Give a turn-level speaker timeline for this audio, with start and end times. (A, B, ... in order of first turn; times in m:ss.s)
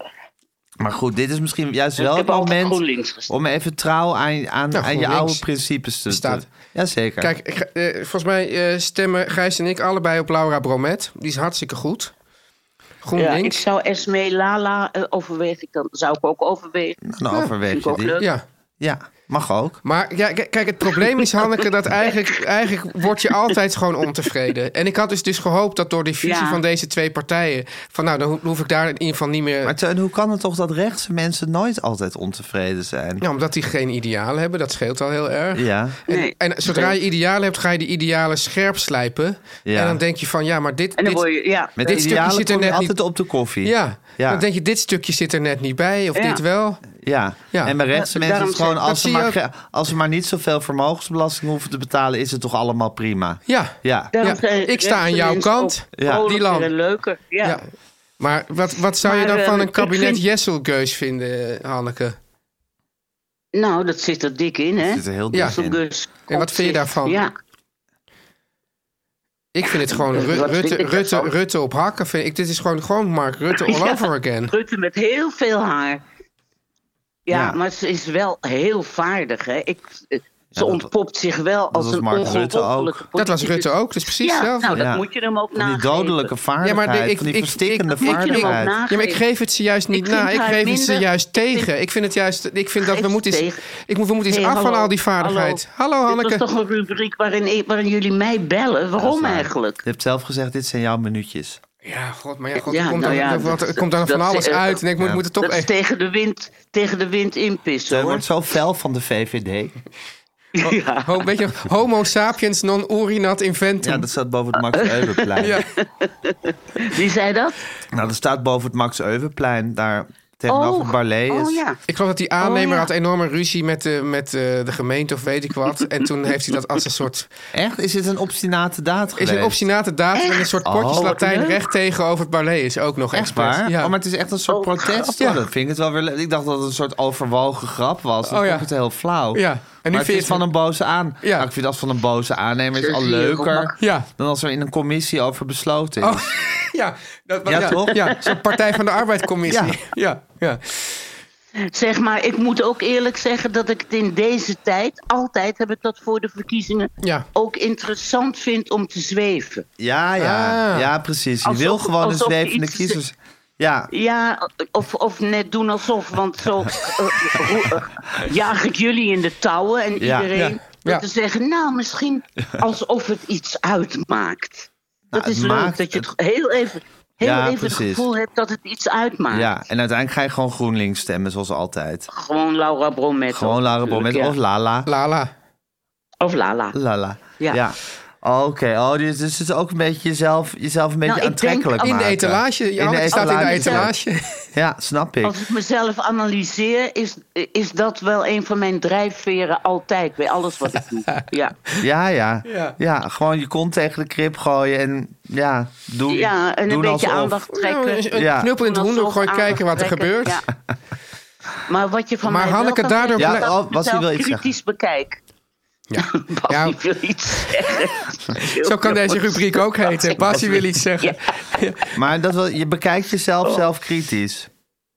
0:00.8-0:07.3 A
0:02.0-0:03.3 B
0:04.7-0:05.4 C
0:06.1-0:06.4 C
0:07.2-0:12.1 C
0:13.0-0:13.6 C
0:13.2-0:17.0 B
0:17.0-0:18.2 A
0:17.7-0:18.3 B
0:18.2-0:18.4 C
0:18.8-0:19.8 A
0:19.8-0:29.7 C
0:26.2-0:26.6 B
0:29.6-0:33.2 A
0:33.2-0:41.2 C
0:35.6-0:36.0 A
0:36.1-0:37.0 B
0:39.7-0:40.0 A
0:41.0-0:42.0 B
0:41.8-0:44.4 A
0:41.8-0:43.0 C
0:43.6-0:46.8 C
0:46.2-0:46.4 B
0:47.0-0:54.1 A
0:47.5-0:47.8 C
0:48.0-0:48.8 B
0:48.8-0:49.4 C
0:53.5-0:56.7 C
0:54.1-0:57.6 B
0:56.0-0:56.3 A
0:58.2-1:02.2 C
0:59.0-1:00.2 B
1:03.5-1:07.3 B
1:04.8-1:05.8 A
1:06.3-1:07.2 C
1:09.5-1:14.5 C
1:09.7-1:11.3 B
1:13.6-1:16.0 B
1:17.3-1:26.3 B
1:17.3-1:17.6 A
1:20.5-1:20.9 A
1:21.7-1:23.1 A
1:23.2-1:24.8 C
1:24.7-1:28.8 A
1:26.6-1:36.4 C
1:28.0-1:29.2 B
1:29.9-1:31.7 B
1:32.8-1:33.6 B
1:34.3-1:39.8 B
1:39.0-1:41.6 A
1:41.8-1:45.7 C
1:42.6-1:44.8 B
1:45.4-1:48.2 B
1:47.9-1:49.8 A
1:50.6-1:51.2 B
1:50.6-1:54.1 C
1:53.8-1:55.6 A
1:54.7-1:57.6 B
1:55.4-1:55.7 C
1:57.9-2:01.6 A
2:00.5-2:01.8 B
2:01.9-2:07.3 C
2:02.4-2:02.9 B
2:07.5-2:09.6 A
2:09.2-2:13.9 C
2:10.2-2:11.7 B
2:10.6-2:11.1 A
2:13.1-2:26.4 A
2:14.5-2:15.1 B
2:15.2-2:15.4 C
2:18.3-2:18.7 C
2:19.3-2:20.4 C
2:21.2-2:21.5 C
2:22.8-2:23.8 B
2:23.8-2:24.1 C
2:26.0-2:31.0 C
2:27.5-2:28.2 A
2:29.5-2:29.8 A
2:31.7-2:39.7 B
2:37.0-2:37.3 C
2:39.8-2:43.9 A
2:40.2-2:40.9 C
2:41.4-2:43.0 B
2:43.9-2:59.5 B
2:50.0-2:50.3 A
2:50.4-2:51.0 C
2:55.1-2:56.1 A
2:57.2-2:58.1 A
2:59.3-3:02.1 A
3:02.1-3:04.4 B
3:03.3-3:04.9 A
3:04.9-3:05.3 C
3:06.2-3:06.7 B
3:06.7-3:13.9 A
3:11.0-3:12.0 B
3:11.8-3:14.4 C
3:13.1-3:13.9 B
3:14.5-3:15.4 A
3:15.2-3:21.6 B
3:21.1-3:21.8 C
3:21.8-3:27.4 A
3:22.5-3:22.8 C
3:26.1-3:30.5 B
3:27.5-3:30.4 C
3:28.1-3:28.5 A
3:31.7-3:35.2 B
3:32.2-3:33.5 C
3:33.2-3:34.5 A
3:35.9-3:36.8 C
3:36.0-3:41.4 B
3:38.4-3:41.9 C
3:40.3-3:40.6 A
3:41.9-3:44.5 A